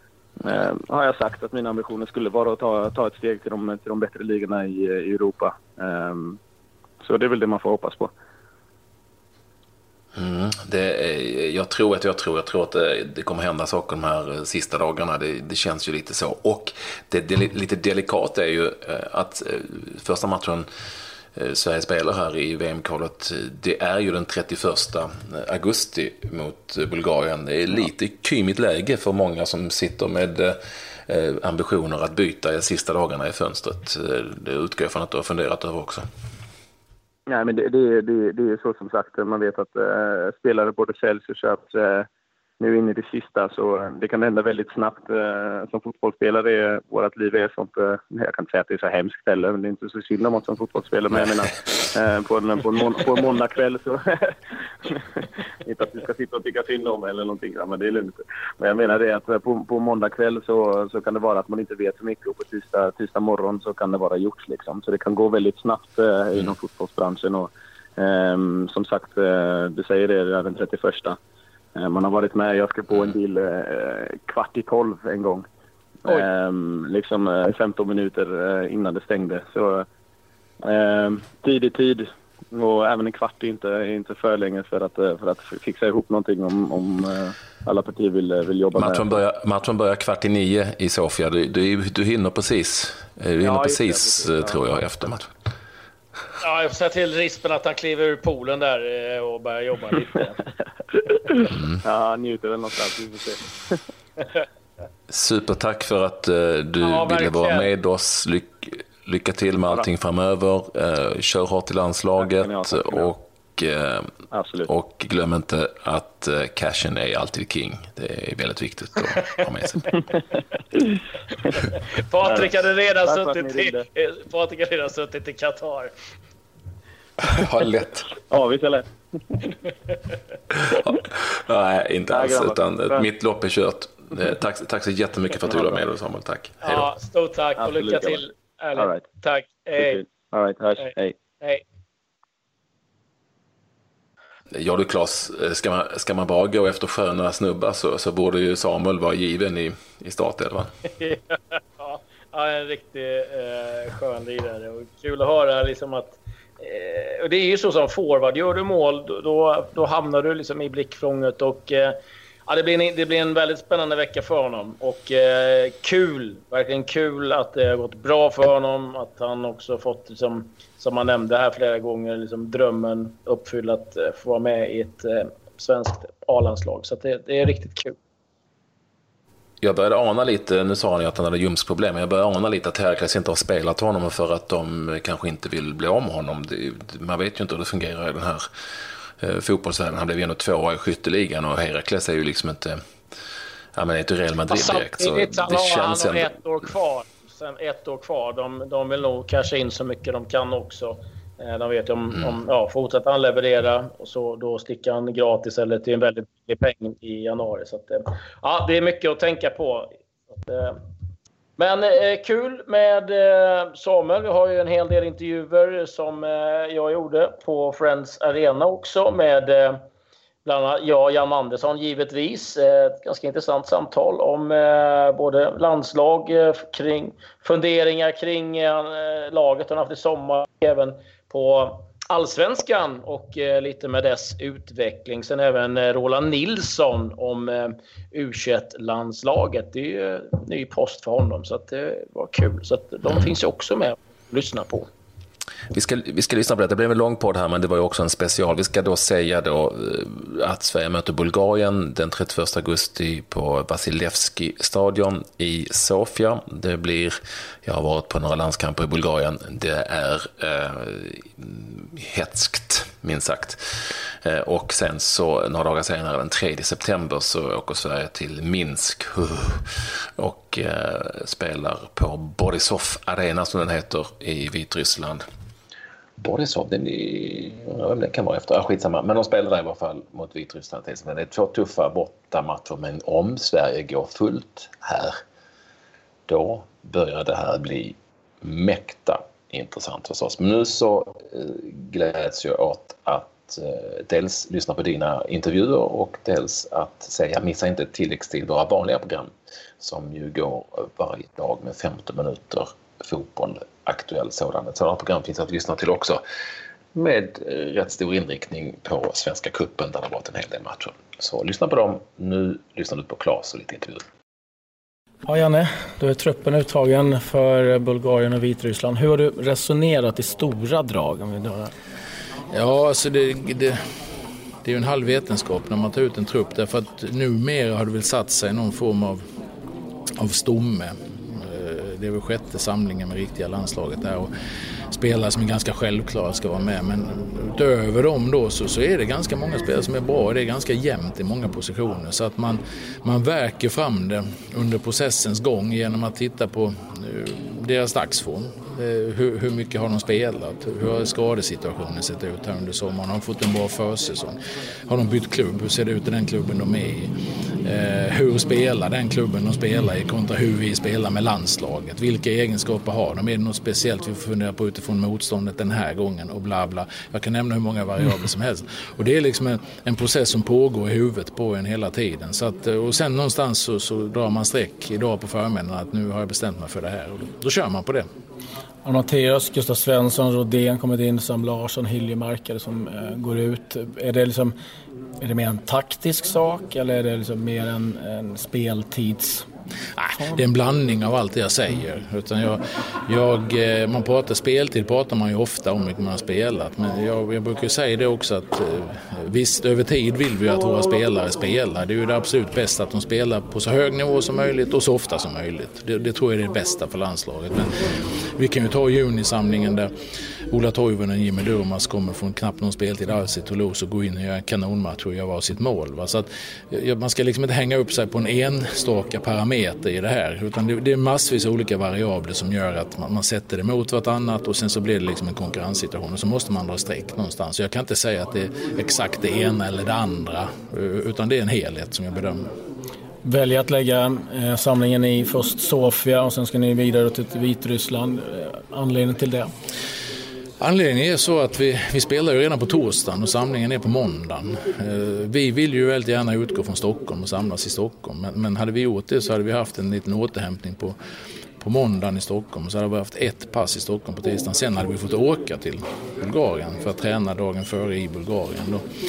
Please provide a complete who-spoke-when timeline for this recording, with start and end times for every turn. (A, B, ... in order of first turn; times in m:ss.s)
0:00.4-0:06.4 A
0:07.0-0:08.1 A
0:10.2-0:20.7 B
0:21.4-0:36.0 B
0:37.3-0:42.1 A
0:42.6-1:11.2 A
1:11.8-1:15.5 A
1:16.1-1:19.9 A
1:20.6-1:29.2 A
1:28.8-1:35.3 B
1:33.4-1:34.6 A
1:36.4-1:40.4 C
1:41.0-1:43.8 A
1:45.1-1:54.1 B
1:46.8-1:47.7 C
1:52.2-1:53.1 A
1:54.3-1:54.7 A
1:54.7-2:00.0 B
2:02.0-2:05.9 C
2:02.2-2:02.5 A
2:03.0-2:03.9 A
2:07.2-2:08.1 B
2:08.3-2:09.6 A
2:10.6-2:16.9 B
2:12.1-2:13.1 A
2:15.5-2:15.8 A
2:16.6-2:20.0 C
2:17.6-2:18.2 A
2:18.8-2:19.0 A
2:19.8-2:21.2 A
2:24.5-2:30.7 B
2:31.0-2:42.0 C
2:42.5-2:58.0 C
2:59.6-3:08.4 B
3:09.2-3:12.8 B
3:13.8-3:16.3 B
3:14.5-3:30.8 C
3:31.6-3:39.8 C
3:40.4-4:04.9 C
4:05.7-4:35.2 B
4:36.2-4:45.2 B
4:46.3-5:06.2 B
5:07.0-5:14.0 B
5:15.3-5:21.7 D
5:22.5-5:23.8 E
5:24.6-5:29.2 E
5:30.2-5:34.3 E
5:34.9-5:54.4 E
5:54.9-5:57.1 E
5:57.6-6:18.1 E
6:18.8-6:24.5 D
6:25.2-6:29.5 D
6:30.0-6:47.8 E
6:48.4-6:49.9 E
6:50.5-7:12.5 E
7:13.2-7:19.5 D
7:20.6-7:31.0 E
7:31.6-7:38.8 E